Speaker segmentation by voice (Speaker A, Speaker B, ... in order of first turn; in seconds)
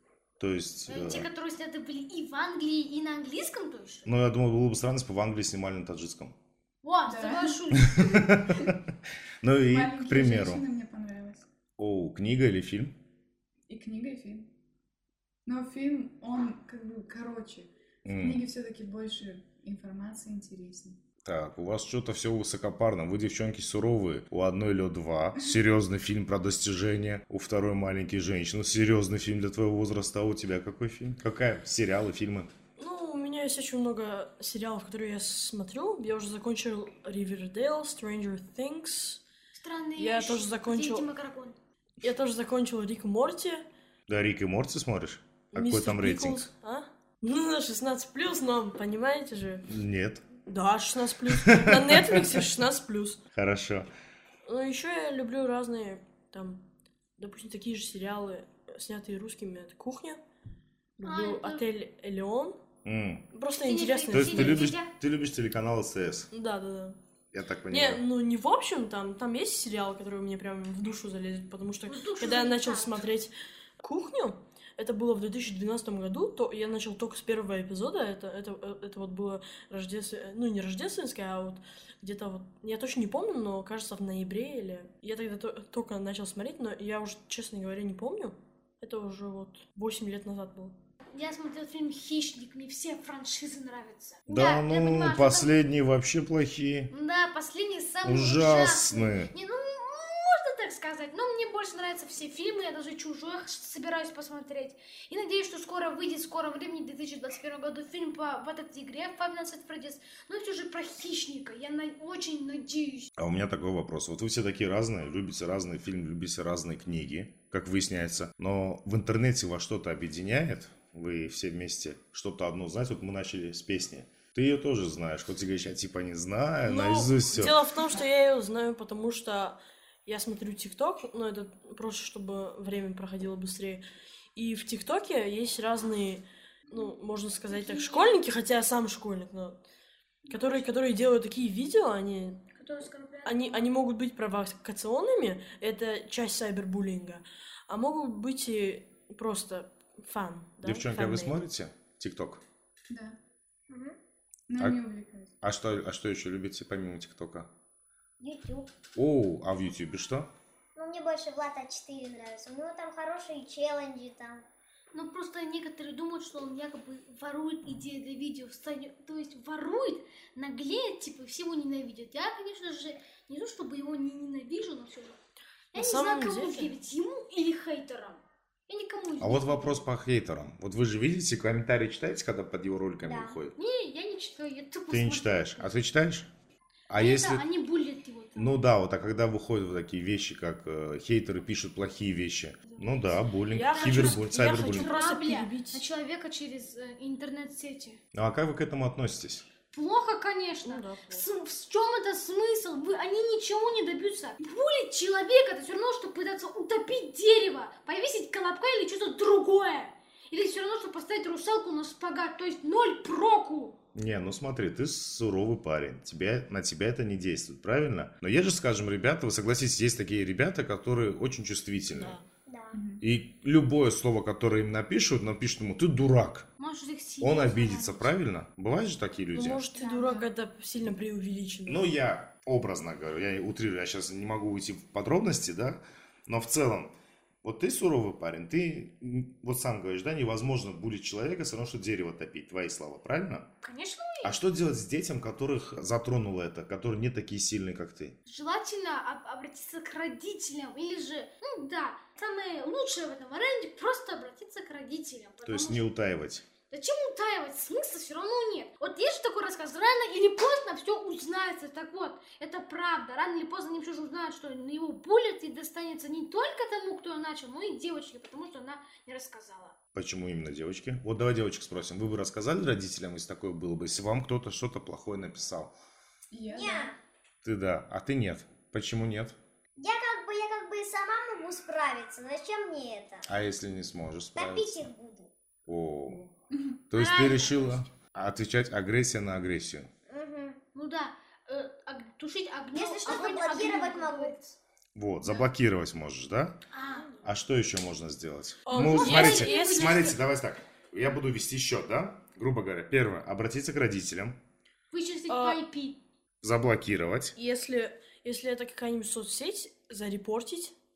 Speaker A: 0.4-1.3, 4.0-6.3, 7.8-8.8, 9.4-10.6, 11.8-12.9, 18.0-18.4, 21.2-32.5, 44.1-46.5, 49.7-50.2, 51.3-52.4, 53.3-53.9, 62.8-63.2, 64.1-66.3, 67.3-68.0, 94.3-96.9, 98.0-99.3, 113.2-127.6, 150.6-152.4, 155.4-157.5, 158.9-160.3, 179.2-183.5, 184.9-186.3, 186.9-187.4, 188.3-194.9, 198.1-199.4, 213.9-222.2, 223.0-226.5, 227.2-229.6, 231.7-243.5, 244.2-248.2, 255.4-256.4, 269.9-275.7, 277.4-279.4, 283.3-284.9, 285.7-286.3, 286.9-289.9, 294.9-296.6, 297.2-304.4, 306.4-307.3
Speaker B: 0.9-4.1, 6.8-8.4, 39.5-41.6, 61.0-61.7, 63.6-64.9, 71.9-73.0, 91.1-95.5, 96.9-113.1, 137.5-138.2, 140.2-140.7, 142.5-143.7, 164.9-175.2, 175.7-179.8, 183.6-185.8, 186.9-188.5, 192.7-198.0, 199.7-213.8, 226.6-228.1, 243.6-244.4, 248.2-255.9, 256.7-269.7, 286.9-287.9, 290.7-294.6, 296.7-297.2, 298.7-300.1, 304.9-306.0
Speaker C: 7.0-7.6, 8.4-8.7, 9.6-11.5, 13.7-14.5, 15.4-21.0, 152.9-153.2, 154.5-155.3, 222.7-223.0, 229.7-230.3, 276.3-276.9, 286.5-286.8
Speaker D: 32.8-39.2, 40.0-41.1, 42.0-43.6, 45.5-49.6, 50.5-53.2, 54.4-56.6, 57.2-60.2, 61.0-62.6, 63.3-64.7, 66.3-67.0, 67.7-90.7, 126.6-133.8, 134.3-139.6, 140.3-142.4, 143.2-151.4, 175.7-176.7, 193.5-195.8, 200.6-201.2, 221.9-222.2, 229.3-231.9, 298.7-300.2, 305.3-305.6, 307.3-310.7
Speaker E: 153.7-153.9, 158.2-158.7, 160.7-164.4, 183.1-183.4, 222.4-222.8, 276.5-277.0, 279.8-283.3, 284.4-285.3, 290.1-290.6, 292.7-294.3